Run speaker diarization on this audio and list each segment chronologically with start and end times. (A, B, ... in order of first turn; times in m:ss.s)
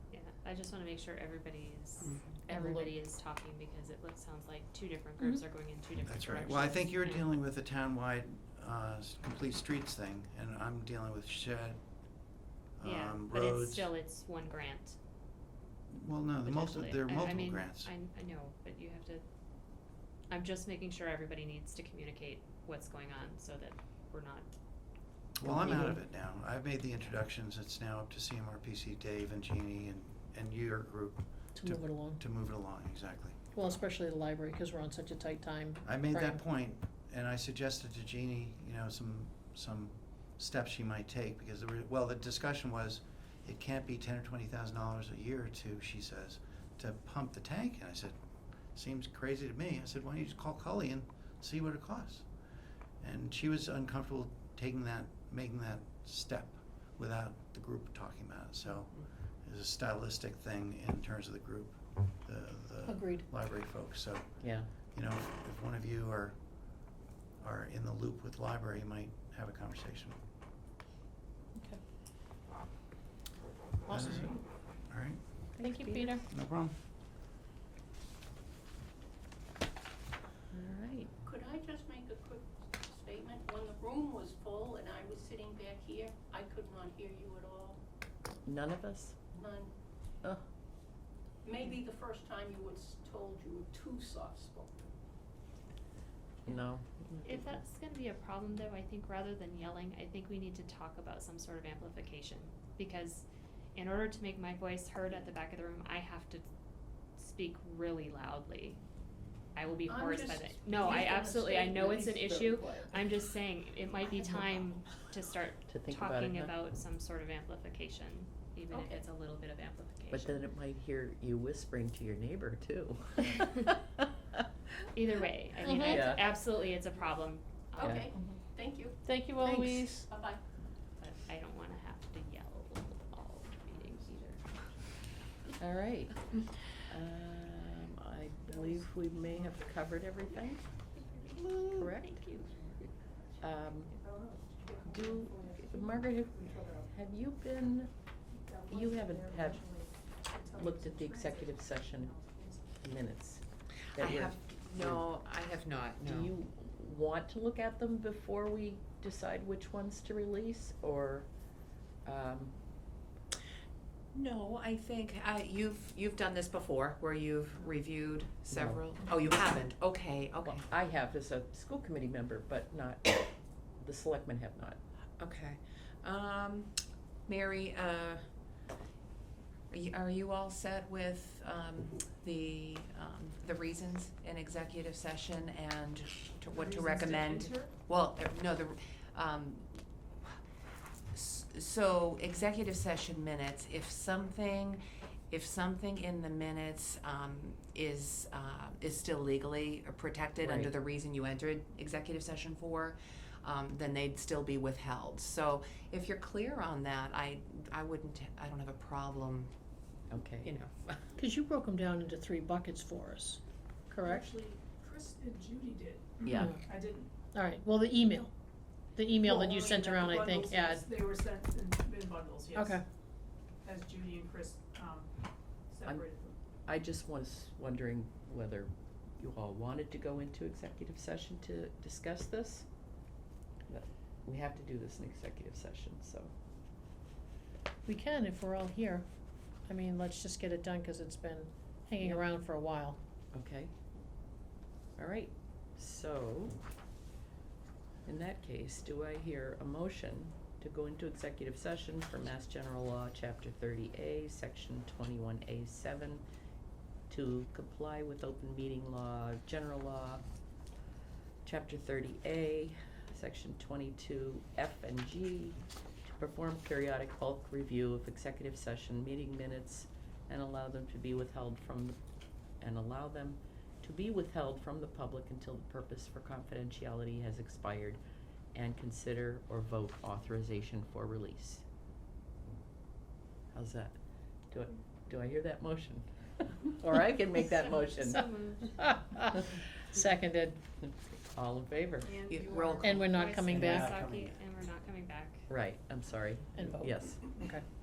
0:00.1-0:07.3 A
0:02.0-0:02.4 B
0:02.6-0:02.9 C
0:06.1-0:11.8 D
0:12.8-0:13.9 D
0:12.8-0:15.0 A
0:15.9-0:17.9 D
0:16.5-0:19.2 A
0:20.3-0:24.5 A
0:25.4-0:33.4 D
0:25.4-0:25.9 C
0:31.6-0:32.2 C
0:33.5-0:36.4 C
0:35.8-0:48.2 D
0:48.7-0:52.3 D
0:53.0-1:06.4 D
1:02.8-1:03.3 C
1:04.4-1:04.7 E
1:07.4-1:10.2 D
1:13.9-1:14.4 C
1:13.9-1:15.2 D
1:15.6-1:16.2 E
1:15.6-1:16.2 C
1:16.3-1:16.8 D
1:20.5-1:21.1 E
1:21.2-1:27.8 F
1:28.5-1:29.2 E
1:29.4-1:29.7 F
1:31.4-1:34.7 F
1:36.4-1:37.4 E
1:37.2-1:46.4 A
1:47.2-1:48.8 A
1:49.6-2:00.4 A
1:49.9-1:53.1 F
1:54.4-1:54.7 F
1:55.7-1:56.6 E
2:00.1-2:04.1 E
2:05.0-2:08.1 A
2:05.6-2:06.0 C
2:05.8-2:06.3 E
2:07.8-2:09.0 F
2:07.8-2:08.1 E
2:09.0-2:10.1 C
2:09.4-2:10.0 E
2:10.1-2:10.4 F
2:11.0-2:14.6 A
2:15.6-2:16.2 E
2:16.9-2:20.7 E
2:18.5-2:20.5 G
2:21.0-2:22.9 A
2:21.7-2:22.2 E
2:23.4-2:24.0 E
2:23.7-2:26.9 G
2:24.8-2:27.9 E
2:28.3-2:32.8 G
2:28.7-2:29.8 E
2:30.5-2:32.1 E
2:32.8-2:33.4 E
2:33.9-2:36.3 B
2:33.9-2:35.1 E
2:36.0-2:41.3 E
2:42.0-2:42.5 E
2:44.1-2:50.6 B
2:48.5-2:48.8 E
2:50.4-2:54.8 E
2:55.2-2:58.2 B
2:59.7-3:10.4 B
3:06.4-3:07.8 G
3:11.1-3:29.5 B
3:20.4-3:20.7 E
3:30.1-3:30.5 E
3:30.4-3:31.1 B
3:31.2-3:34.2 C
3:34.0-3:37.1 G
3:36.2-3:36.6 E
3:36.4-3:36.6 C
3:37.3-3:38.3 C
3:39.0-3:40.8 C
3:39.2-3:42.8 G
3:42.5-3:42.8 C
3:43.6-3:46.4 G
3:46.7-3:52.7 E
3:53.7-3:56.3 E
3:57.8-3:59.0 C
3:59.7-4:03.0 C
4:03.3-4:03.7 E
4:05.0-4:06.6 E
4:08.1-4:16.2 E
4:17.1-4:20.2 E
4:21.4-4:32.0 E
4:32.6-4:38.0 E
4:38.5-4:41.6 E
4:43.5-4:44.0 E
4:44.5-4:48.3 E
4:47.6-4:49.0 A
4:48.8-4:49.4 C
4:49.9-4:50.6 C
4:50.8-4:52.1 E
4:52.0-4:53.0 G
4:52.2-4:53.8 B
4:52.8-4:53.9 C
4:53.1-4:55.4 A
4:53.5-4:54.4 D
4:55.5-4:57.3 E
4:56.6-4:57.6 C